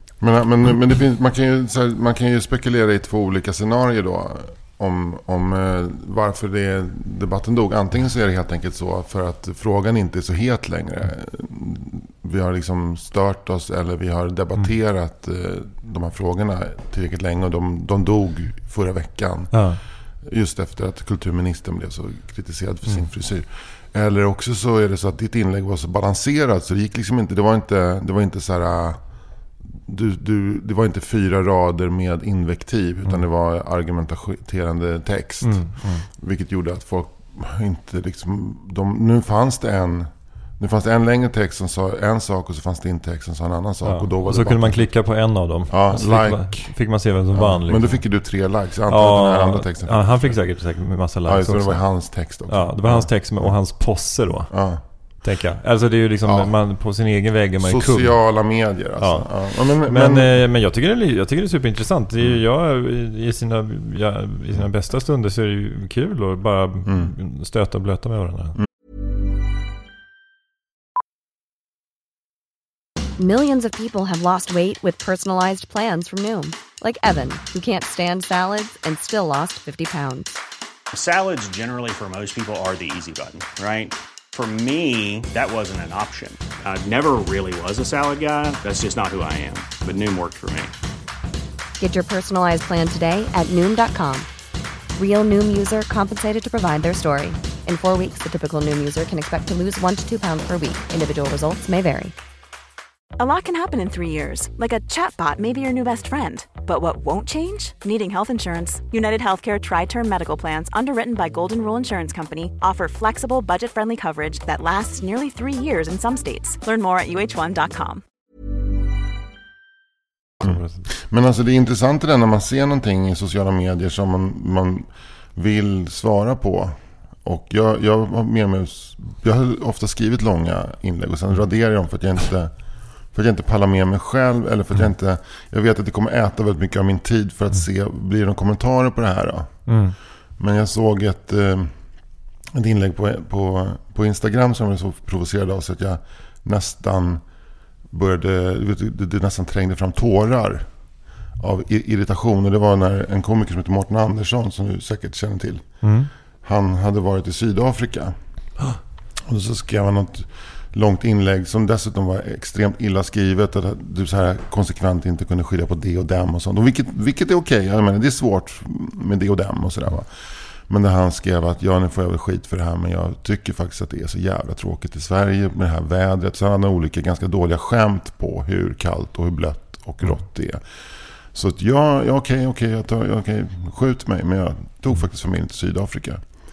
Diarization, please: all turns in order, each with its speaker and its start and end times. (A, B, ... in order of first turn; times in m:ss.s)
0:00.2-0:29.0 A
0:19.5-0:19.8 B
0:29.7-0:44.9 A
0:35.4-0:36.0 B
0:43.8-0:48.0 B
0:45.7-0:46.7 A
0:47.3-0:50.4 A
0:48.9-0:54.6 B
0:51.2-0:53.6 A
0:54.5-0:54.8 A
0:55.2-0:58.3 B
0:56.2-0:56.5 A
0:57.6-1:00.4 A
0:59.0-1:08.6 B
1:06.8-1:07.1 A
1:13.2-1:20.4 C
1:20.9-1:30.7 D
1:31.8-1:34.3 C
1:35.0-1:42.1 C
1:43.2-1:58.0 E
2:00.4-2:00.8 B
2:00.4-2:12.5 A
2:13.1-2:19.8 A
2:19.7-2:20.0 B
2:20.4-2:21.8 A
2:22.5-2:27.2 A
2:27.9-2:30.7 A
2:31.4-2:35.9 A
2:35.8-2:36.1 B
2:36.4-2:38.2 A
2:39.2-2:50.1 A
2:50.6-3:00.6 A
3:01.3-3:06.2 A